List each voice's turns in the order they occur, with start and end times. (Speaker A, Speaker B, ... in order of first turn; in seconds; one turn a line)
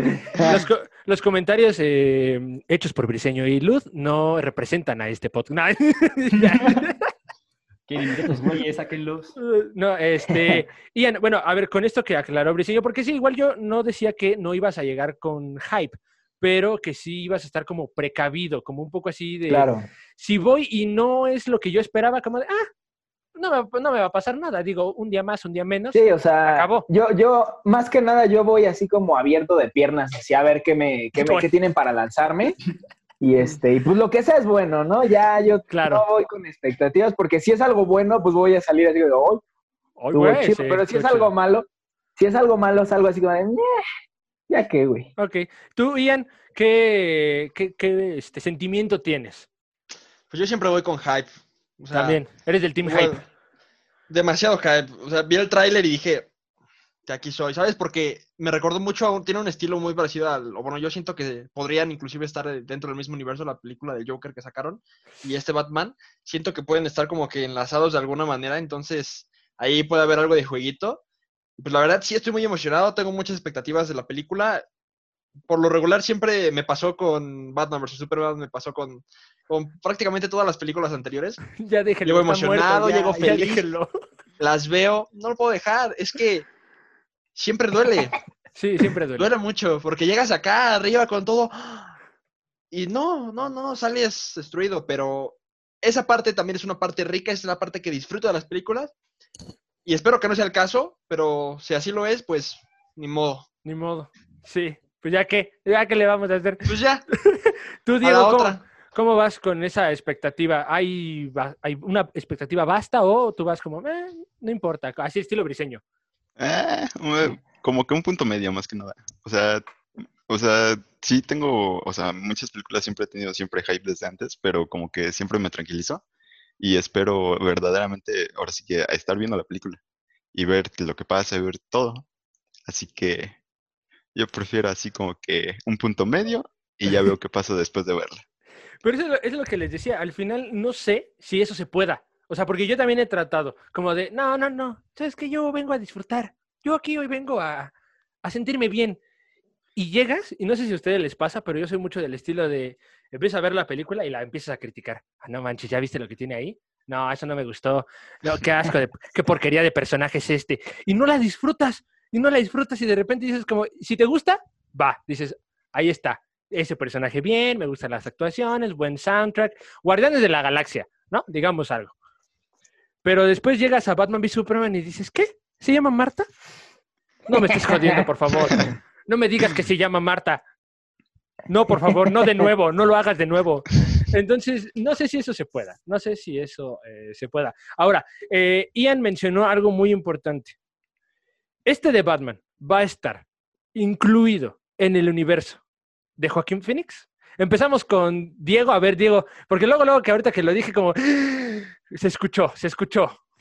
Speaker A: 0.2-0.6
Speaker B: 0.3-7.1
Speaker C: 6.3-6.8
Speaker C: 7.9-9.3
Speaker B: 9.4-22.7
Speaker A: 10.3-10.6
Speaker A: 19.5-19.9
Speaker B: 23.4-26.9
Speaker A: 25.9-32.6
Speaker B: 31.2-31.5
Speaker A: 33.2-39.4
Speaker B: 35.7-36.0
Speaker B: 40.0-41.3
Speaker A: 40.1-43.8
Speaker A: 44.5-45.1
Speaker B: 45.2-49.5
Speaker D: 50.3-52.3
Speaker B: 51.9-53.2
Speaker D: 52.8-53.2
Speaker D: 54.1-56.3
Speaker D: 57.0-71.0
Speaker D: 71.6-74.6
Speaker D: 75.5-81.4
Speaker B: 81.6-83.9
Speaker D: 82.0-83.6
Speaker D: 84.4-86.5
Speaker D: 87.3-88.2
Speaker B: 88.5-89.3
Speaker D: 89.2-91.9
Speaker D: 92.7-98.9
Speaker D: 99.8-103.5
Speaker B: 103.6-106.7
Speaker D: 106.6-107.0
Speaker B: 107.2-115.8
Speaker D: 108.0-108.6
Speaker E: 116.4-119.6
Speaker E: 120.2-126.0
Speaker E: 126.6-129.8
Speaker E: 130.3-132.0
Speaker E: 132.7-133.3
Speaker E: 134.1-138.2
Speaker B: 138.8-147.7
Speaker B: 148.2-149.0
Speaker B: 149.8-171.9
Speaker B: 173.0-176.3
Speaker B: 177.3-180.4
Speaker A: 177.7-178.0
Speaker B: 181.5-190.6
Speaker B: 191.7-195.6
Speaker B: 196.2-203.2